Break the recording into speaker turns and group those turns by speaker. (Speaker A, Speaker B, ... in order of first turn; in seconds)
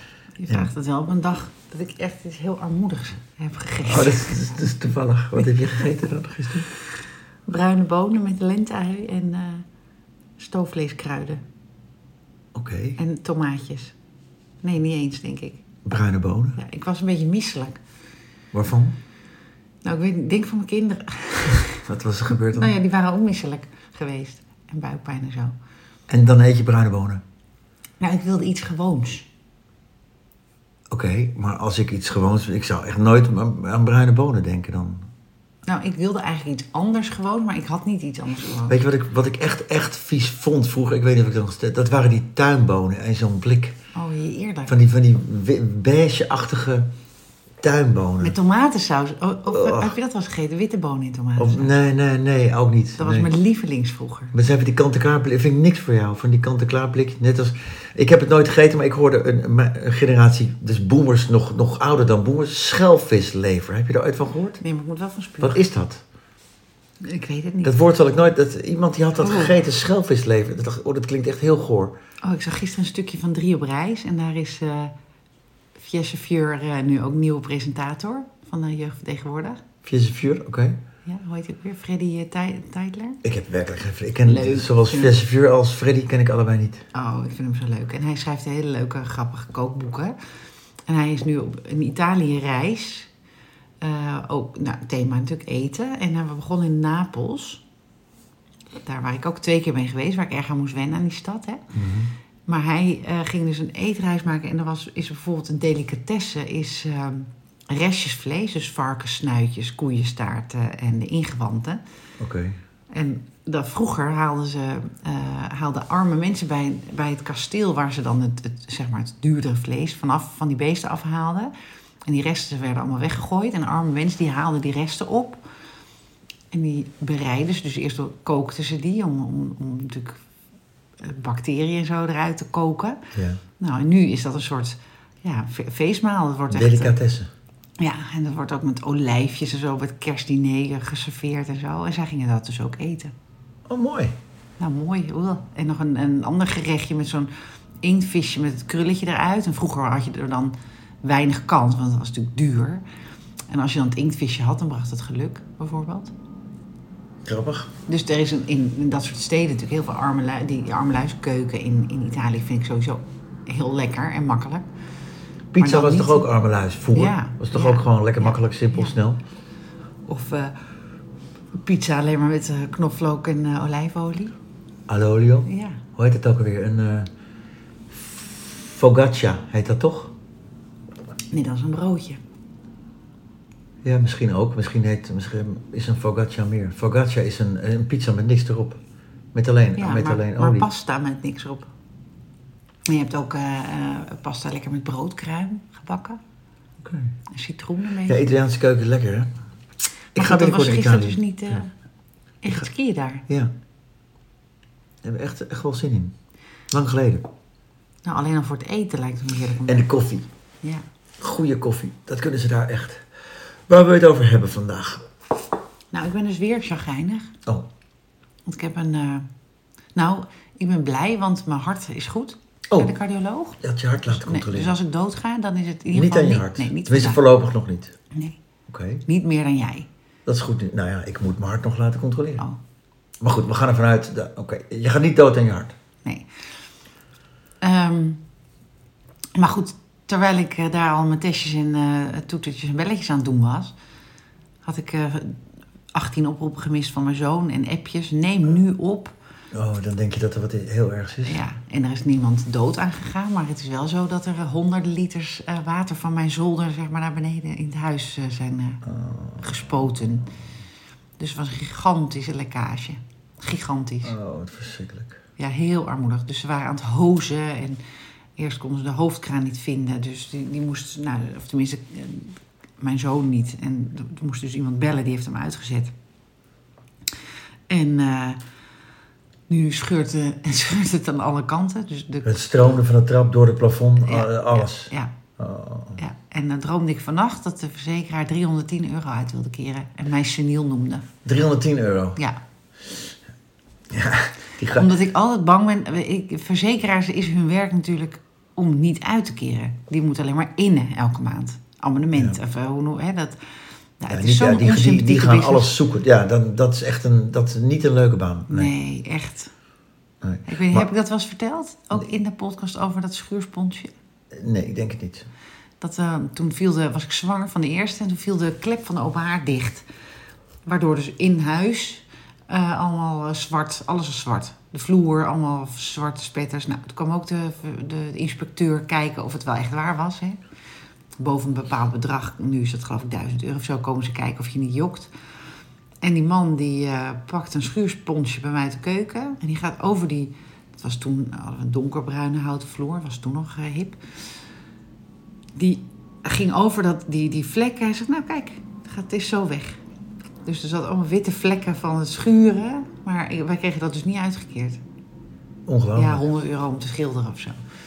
Speaker A: 0.4-4.6, 5.4-5.8, 7.5-9.6, 10.4-11.4, 13.0-13.9, 14.6-15.6, 16.6-17.8, 19.8-21.8, 22.5-25.5, 28.0-29.3, 35.6-38.8, 43.9-44.8, 48.2-51.7, 53.0-54.3, 64.6-65.6, 67.0-67.7, 69.2-69.5, 72.2-74.9, 75.8-79.6, 81.0-83.2, 84.2-85.1, 86.9-90.1, 90.8-93.1, 93.8-97.6, 98.8-101.6, 102.5-111.8, 112.9-121.5, 122.0-125.4, 126.5-130.2, 131.0-133.0, 133.6-136.9, 137.8-143.1, 144.6-147.3, 147.8-152.8, 153.5-156.1, 157.9-164.7, 165.6-166.3, 166.9-168.9, 170.1-170.6, 171.6-174.3, 175.4-175.8, 181.3-182.2, 189.8-191.7, 192.9-196.2, 197.3-198.3, 200.2-201.7, 202.4-203.2, 208.0-209.9, 215.9-217.3, 218.4-219.3, 219.9-227.2, 228.1-228.4, 229.1-229.9, 237.6-238.2, 239.3-243.7, 244.6-245.4, 245.9-249.1, 251.2-258.8, 259.4-260.3, 261.2-264.1, 265.4-267.8, 268.4-275.9, 277.7-278.4, 279.5-282.3, 284.0-285.1, 286.0-291.1, 294.7-303.4, 304.0-305.7, 308.5-309.5, 310.5-313.9, 315.8-319.9, 320.6-330.4, 331.2-335.1, 336.0-344.0, 345.5-349.8, 350.4-354.8, 355.9-357.6
Speaker B: 3.9-6.7, 12.5-13.0, 15.8-16.6, 18.5-18.9, 21.8-22.7, 26.1-27.2, 30.9-35.1, 38.7-43.8, 44.7-46.9, 47.6-48.3, 49.5-49.9, 51.4-53.3, 54.3-64.6, 65.4-66.0, 67.6-71.9, 79.8-80.8, 83.2-86.8, 101.7-102.1, 112.2-112.6, 133.1-133.4, 136.5-137.3, 143.7-144.1, 157.2-157.7, 165.5-169.2, 174.9-177.1, 177.9-180.1, 183.8-188.8, 189.3-190.7, 196.8-197.1, 198.1-199.3, 200.1-201.6, 205.0-206.1, 206.7-207.3, 209.7-210.3, 211.2-213.0, 213.7-215.0, 223.6-224.7, 225.9-227.9, 228.7-229.0, 230.2-232.4, 233.2-235.7, 249.5-251.4, 258.9-259.4, 264.0-265.2, 282.2-286.0, 291.2-292.2, 293.9-294.9, 304.1-308.7, 310.2-310.9, 314.3-315.3, 355.7-356.2